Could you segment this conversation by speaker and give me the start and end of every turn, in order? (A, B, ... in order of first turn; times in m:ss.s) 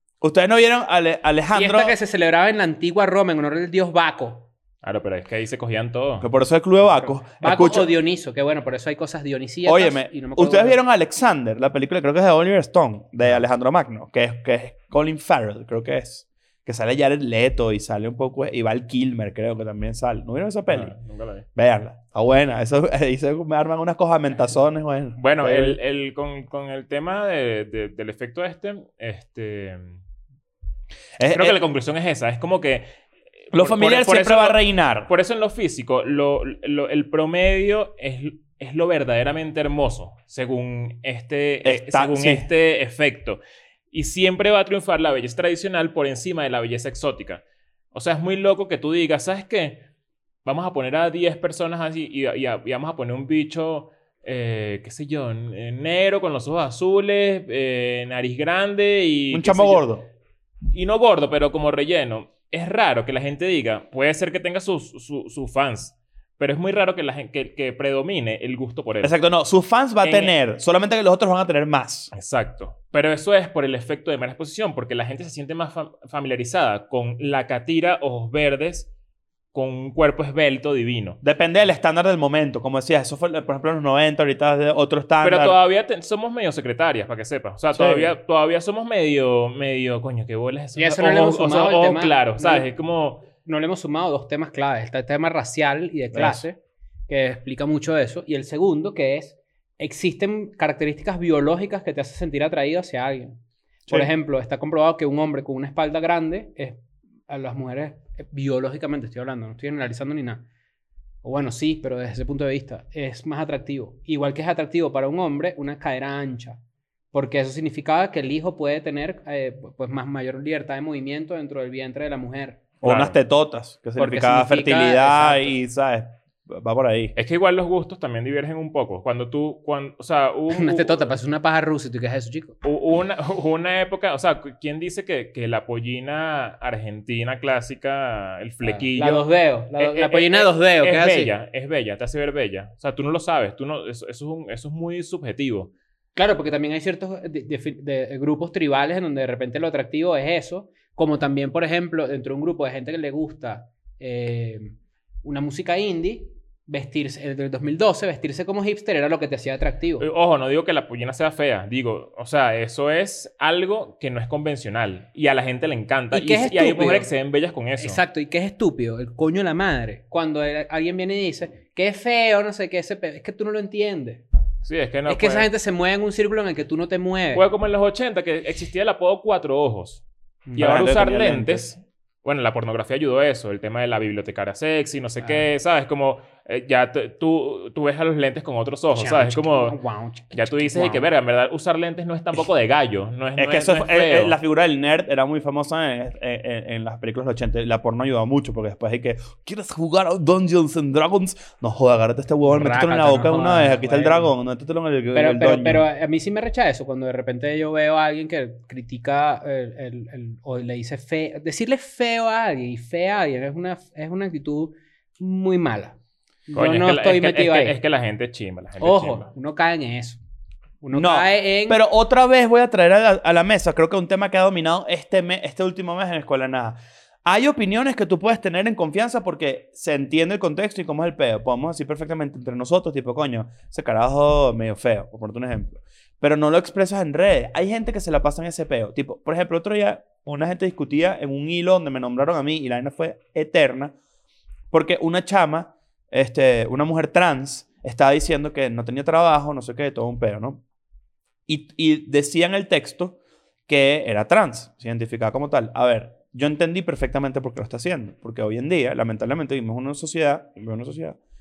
0:00.2-0:02.0 A
0:01.5-0:04.5 B
0:04.8-0:06.3 C
0:06.2-0:07.9 A
0:07.3-0:10.8 B
0:09.7-0:20.9 A
0:20.7-0:21.5 C
0:21.6-0:25.8 A
0:25.2-0:30.0 C
0:31.2-0:31.6 A
0:31.3-0:32.9 C
0:33.5-0:43.4 C
0:33.5-0:35.1 A
0:41.6-0:42.5 A
0:43.9-0:49.9 C
0:50.4-0:59.9 C
0:59.3-1:00.1 A
1:00.7-1:09.2 C
1:09.0-1:12.1 A
1:10.0-1:10.3 C
1:12.1-1:18.9 C
1:19.5-1:21.2 C
1:21.2-1:25.6 A
1:25.2-1:33.3 C
1:27.7-1:28.2 A
1:30.8-1:32.7 B
1:33.4-1:50.5 B
1:36.1-1:36.4 A
1:51.2-1:56.6 B
1:57.1-2:02.6 B
2:02.8-2:07.1 A
2:02.8-2:03.2 C
2:04.0-2:05.6 B
2:07.2-2:11.1 C
2:10.5-2:12.6 B
2:12.6-2:25.7 C
2:18.6-2:21.3 B
2:26.2-2:40.1 B
2:40.0-2:48.0 C
2:46.1-2:47.1 B
2:47.8-2:54.2 B
2:54.6-2:55.5 C
2:55.1-2:57.4 B
2:57.3-3:00.0 C
3:00.5-3:00.8 B
3:00.6-3:09.8 C
3:00.6-3:01.7 A
3:08.9-3:11.0 B
3:10.3-3:14.4 C
3:13.4-3:25.8 A
3:22.4-3:24.3 B
3:25.1-3:37.8 B
3:36.5-3:39.3 C
3:38.8-3:40.2 B
3:40.8-3:41.8 B
3:40.9-4:03.9 A
4:04.7-4:10.6 A
4:11.5-4:13.2 A
4:13.7-4:21.2 A